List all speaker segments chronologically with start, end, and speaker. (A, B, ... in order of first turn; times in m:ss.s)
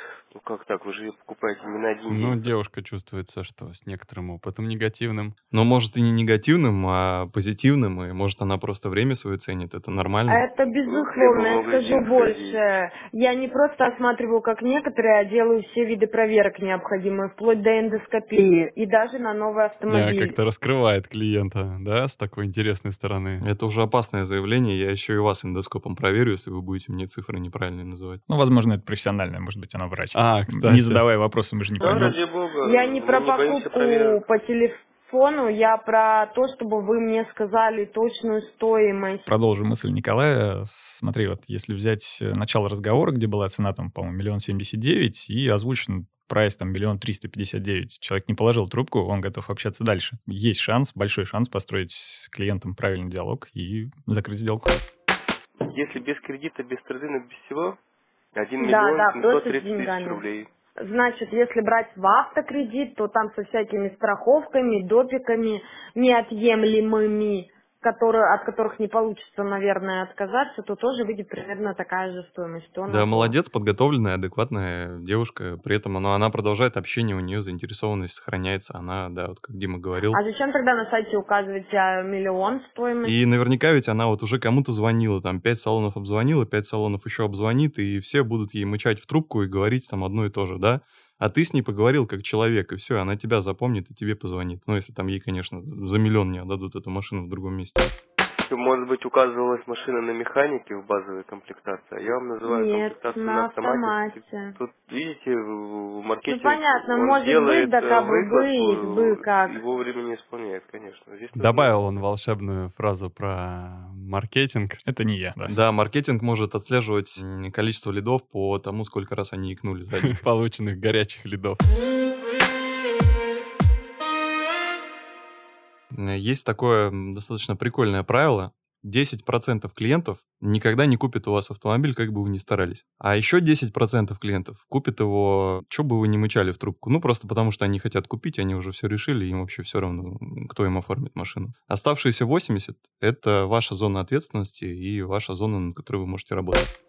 0:00.3-0:02.4 A
0:02.1-0:05.4 B
0:05.5-0:10.4 C
0:10.3-0:20.4 D
0:10.9-0:12.6 A
0:19.9-0:23.4 B
0:23.4-0:28.2 C
0:28.3-0:32.2 E
0:30.1-0:31.0 B
0:31.8-0:34.2 A
0:32.6-0:39.3 D
0:39.3-0:54.7 E
0:55.6-0:57.8 A
0:58.3-1:00.5 A
0:58.6-1:00.2 D
1:00.8-1:13.4 D
1:12.9-1:20.2 C
1:20.1-1:23.2 D
1:23.0-1:37.9 C
1:38.5-1:51.9 A
1:42.4-1:44.6 D
1:46.3-1:49.6 D
1:51.4-1:54.8 B
1:54.8-1:55.6 E
1:55.5-2:00.2 C
2:00.1-2:01.6 B
2:05.9-2:26.7 C